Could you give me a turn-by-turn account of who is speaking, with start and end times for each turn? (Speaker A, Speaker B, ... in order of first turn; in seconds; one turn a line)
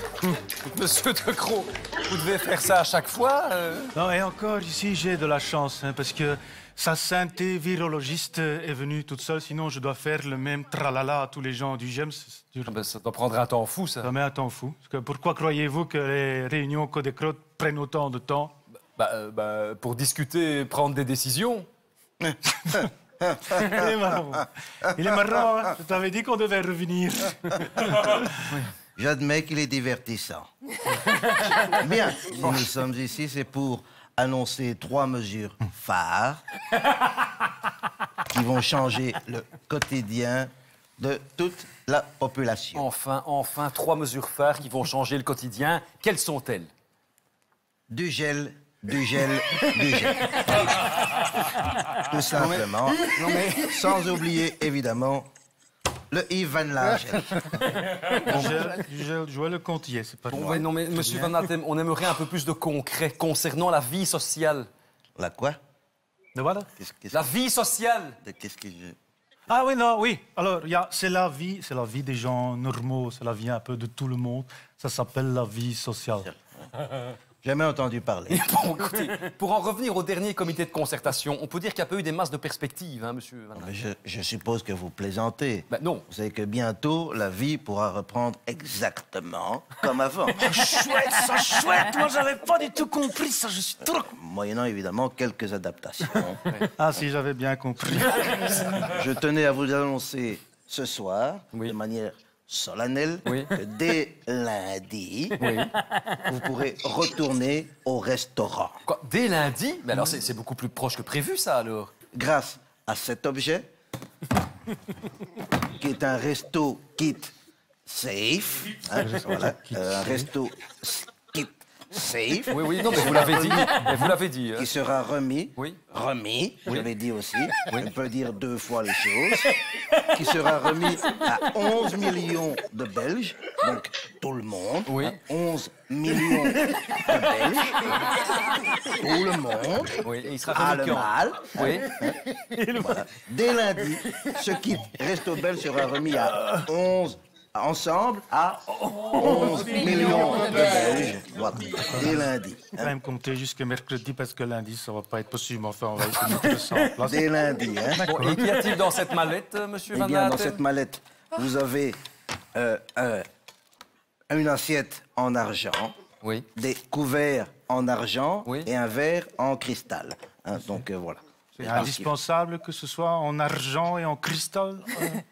Speaker A: 0.6-3.9
Speaker B: 3.9-12.8
Speaker A: 12.7-14.1
Speaker B: 14.0-18.5
Speaker A: 18.9-21.7
Speaker C: 22.2-25.4
Speaker B: 23.5-28.3
Speaker C: 27.5-27.8
Speaker C: 28.9-30.5
Speaker C: 31.5-36.4
Speaker C: 38.3-42.9
Speaker A: 42.7-46.7
Speaker C: 47.9-50.4
Speaker C: 51.9-55.3
Speaker A: 52.3-54.0
Speaker C: 56.1-57.6
Speaker A: 58.1-58.6
Speaker B: 58.2-61.3
Speaker A: 60.3-64.7
Speaker C: 60.3-60.7
Speaker C: 65.2-65.6
Speaker B: 66.3-66.7
Speaker C: 66.8-67.3
Speaker A: 67.1-68.2
Speaker C: 68.2-69.0
Speaker B: 69.5-76.3
Speaker C: 76.2-76.7
Speaker C: 77.4-78.5
Speaker A: 78.3-83.8
Speaker C: 83.5-90.5
Speaker A: 85.7-86.0
Speaker B: 90.4-94.1
Speaker C: 93.9-96.4
Speaker B: 96.8-98.7
Speaker C: 98.8-105.4
Speaker A: 103.2-103.5
Speaker A: 105.4-105.8
Speaker C: 106.2-108.8
Speaker A: 108.8-111.9
Speaker C: 112.1-113.7
Speaker C: 115.7-117.3
Speaker C: 117.8-123.8
Speaker B: 119.0-120.3
Speaker A: 122.5-124.7
Speaker C: 124.5-138.0
Speaker A: 127.7-127.9
Speaker A: 134.8-135.2
Speaker C: 138.9-139.9
Speaker A: 140.0-141.9
Speaker C: 140.5-152.9
Speaker B: 148.9-150.4
Speaker B: 151.8-152.2
Speaker B: 152.8-157.3
Speaker C: 157.0-158.0
Speaker B: 157.9-158.6
Speaker A: 158.0-160.6
Speaker C: 159.9-162.0
Speaker C: 162.5-163.3
Speaker C: 164.3-165.9
Speaker A: 166.2-166.4
Speaker C: 166.6-172.1
Speaker A: 171.6-171.9
Speaker B: 171.6-175.2